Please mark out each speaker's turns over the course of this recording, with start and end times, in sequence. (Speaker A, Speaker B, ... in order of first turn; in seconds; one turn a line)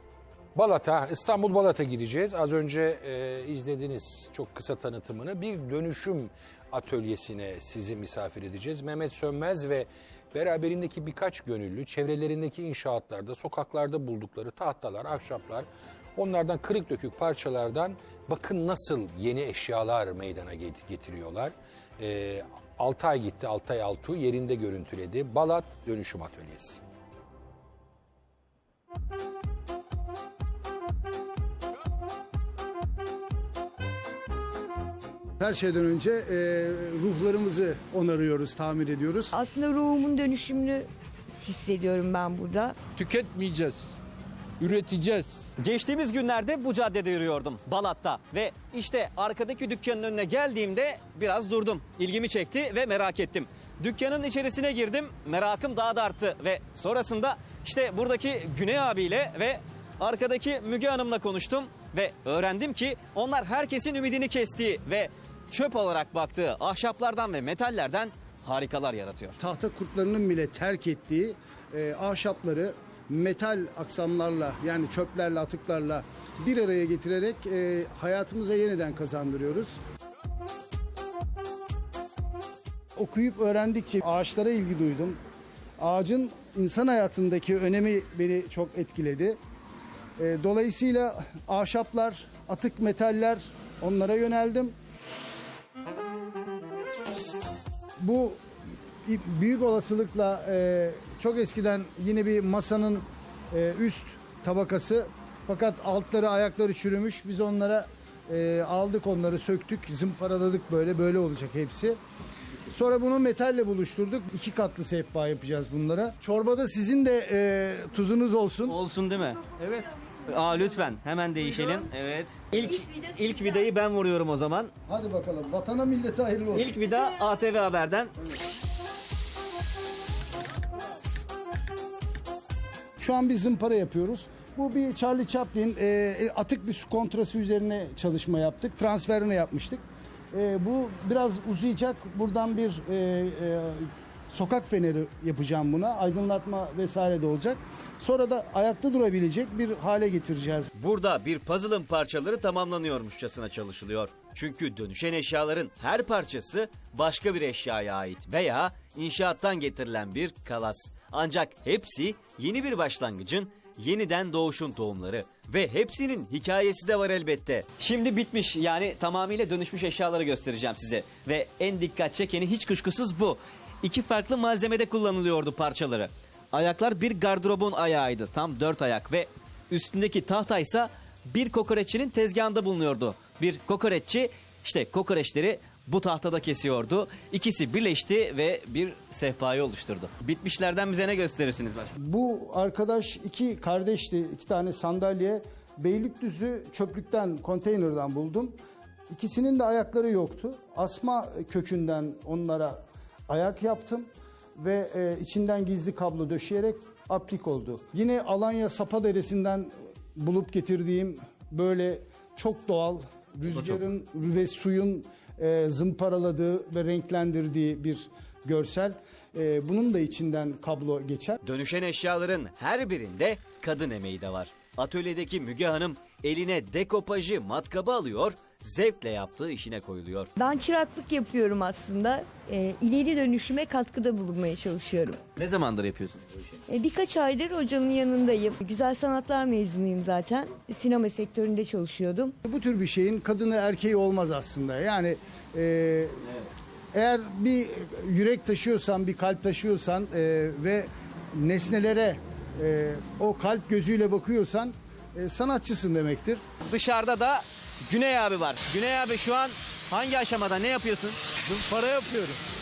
Speaker A: 0.5-26.8
Speaker B: 35.4-39.3
Speaker C: 39.3-40.9
Speaker C: 41.4-42.8
Speaker D: 42.9-44.0
Speaker D: 44.6-45.5
Speaker E: 45.6-69.4
Speaker B: 69.4-79.8
Speaker B: 82.9-85.2
Speaker B: 85.8-89.4
Speaker B: 90.2-94.7
Speaker B: 98.0-98.4
Speaker B: 99.0-112.0
Speaker B: 112.7-118.8
Speaker E: 118.7-119.4
Speaker B: 119.6-119.9
Speaker E: 120.2-124.7
Speaker B: 124.8-126.8
Speaker E: 126.5-128.1
Speaker B: 133.0-150.7
Speaker E: 150.7-191.9
Speaker B: 191.9-198.6
Speaker B: 199.1-221.4
Speaker E: 221.4-230.3
Speaker C: 230.4-235.2
Speaker E: 235.3-236.6
Speaker C: 236.7-242.3
Speaker B: 242.4-246.3
Speaker B: 246.9-256.4
Speaker E: 256.6-261.5
Speaker D: 261.5-262.4